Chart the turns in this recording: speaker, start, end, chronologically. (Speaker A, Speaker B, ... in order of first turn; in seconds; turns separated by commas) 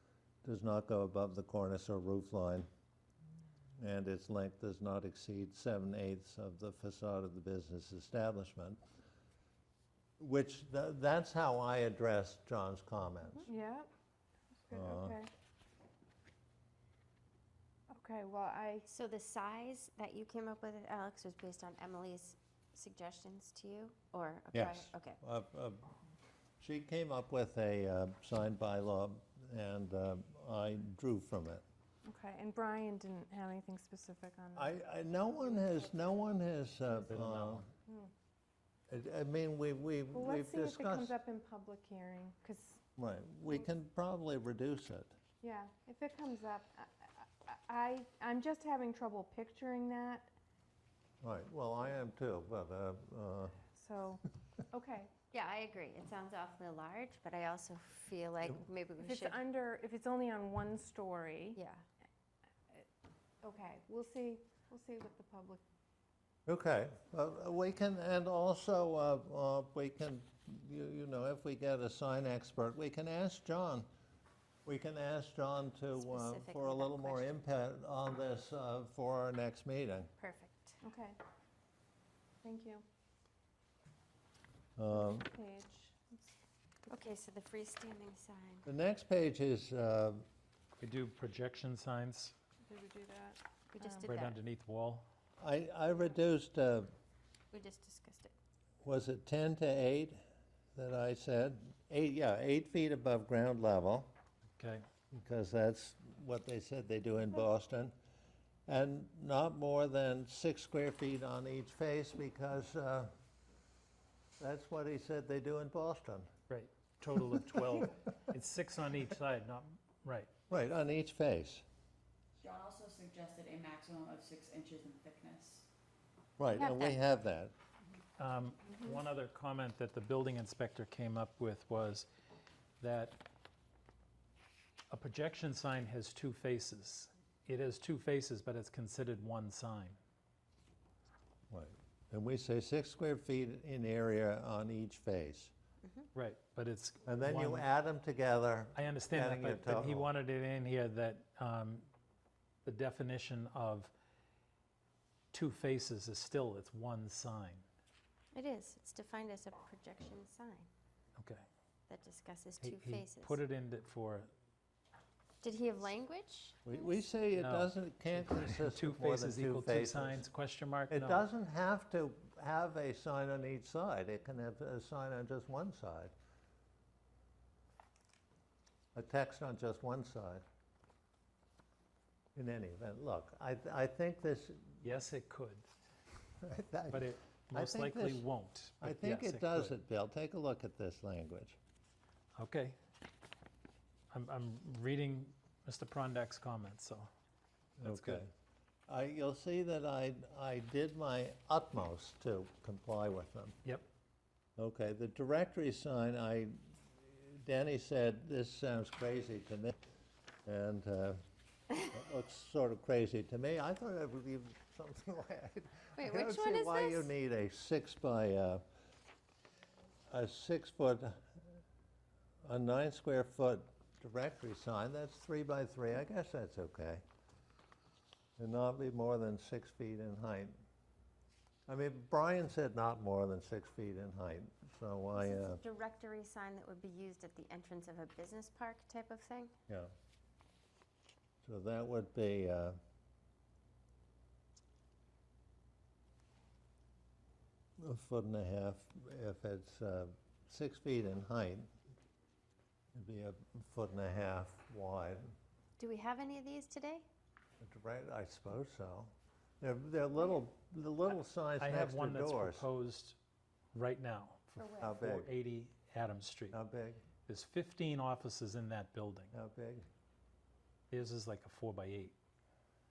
Speaker A: 0.4-2.7, Speaker A: 3.8-8.8, Speaker A: 10.2-13.5, Speaker B: 13.5-13.9, Speaker B: 14.7-15.3, Speaker A: 14.7-15.2, Speaker B: 17.9-18.9, Speaker C: 18.9-25.2, Speaker A: 24.5-26.0, Speaker A: 26.6-31.6, Speaker B: 32.0-34.7, Speaker A: 34.5-37.7, Speaker D: 37.1-37.7, Speaker A: 38.9-41.1, Speaker B: 40.1-42.8, Speaker A: 43.0-45.2, Speaker B: 45.4-50.3, Speaker A: 51.2-53.6, Speaker B: 53.7-55.1, Speaker C: 55.3-59.4, Speaker B: 59.0-61.6, Speaker C: 61.5-61.8, Speaker B: 63.4-65.6, Speaker A: 66.5-73.9, Speaker A: 74.7-80.1, Speaker C: 76.0-77.3, Speaker C: 80.2-80.8, Speaker B: 80.8-81.2, Speaker B: 82.4-82.8, Speaker A: 84.8-85.3, Speaker B: 84.9-86.3, Speaker C: 86.9-88.7, Speaker A: 88.7-90.2, Speaker D: 90.8-92.3, Speaker B: 92.7-94.1, Speaker C: 93.7-94.4, Speaker D: 94.0-95.0, Speaker A: 95.4-96.9, Speaker C: 97.5-98.3, Speaker A: 98.8-100.2, Speaker A: 100.8-104.1, Speaker D: 104.6-104.8, Speaker A: 105.1-107.9, Speaker A: 108.7-113.1, Speaker A: 114.4-116.3, Speaker D: 116.5-120.3, Speaker A: 120.5-121.7, Speaker E: 122.4-125.7, Speaker A: 126.4-127.5, Speaker C: 126.6-127.0, Speaker D: 128.2-132.1, Speaker D: 132.8-133.2, Speaker D: 134.9-140.0, Speaker A: 141.5-145.5, Speaker D: 146.2-147.7, Speaker A: 147.1-150.1, Speaker D: 148.8-151.9, Speaker D: 152.7-153.9, Speaker D: 155.3-157.7, Speaker C: 158.3-160.7, Speaker D: 161.2-161.4, Speaker C: 161.9-163.4, Speaker D: 162.6-164.3, Speaker C: 165.4-166.8, Speaker A: 166.7-170.2, Speaker D: 167.3-171.2, Speaker A: 170.9-176.1, Speaker A: 178.9-180.4, Speaker A: 182.3-184.8, Speaker D: 184.8-185.7, Speaker A: 186.4-188.3, Speaker D: 186.9-189.7, Speaker A: 188.8-191.6, Speaker D: 192.4-192.8, Speaker D: 194.1-197.1, Speaker A: 197.8-198.3, Speaker D: 197.8-198.2, Speaker A: 198.9-203.6, Speaker A: 204.6-209.8, Speaker A: 210.5-211.2, Speaker A: 211.9-218.6, Speaker C: 216.0-217.1, Speaker A: 220.1-221.2, Speaker A: 222.4-227.0, Speaker A: 228.4-230.6, Speaker A: 231.7-235.6, Speaker C: 235.2-239.5, Speaker A: 241.4-242.8, Speaker A: 247.8-251.7, Speaker A: 252.9-255.3, Speaker C: 255.8-257.1, Speaker A: 257.6-262.7, Speaker D: 261.6-263.2, Speaker D: 263.7-266.6, Speaker C: 264.6-265.0, Speaker A: 264.8-265.3, Speaker A: 266.5-267.0, Speaker D: 267.3-269.3, Speaker A: 269.3-269.9, Speaker D: 270.9-272.1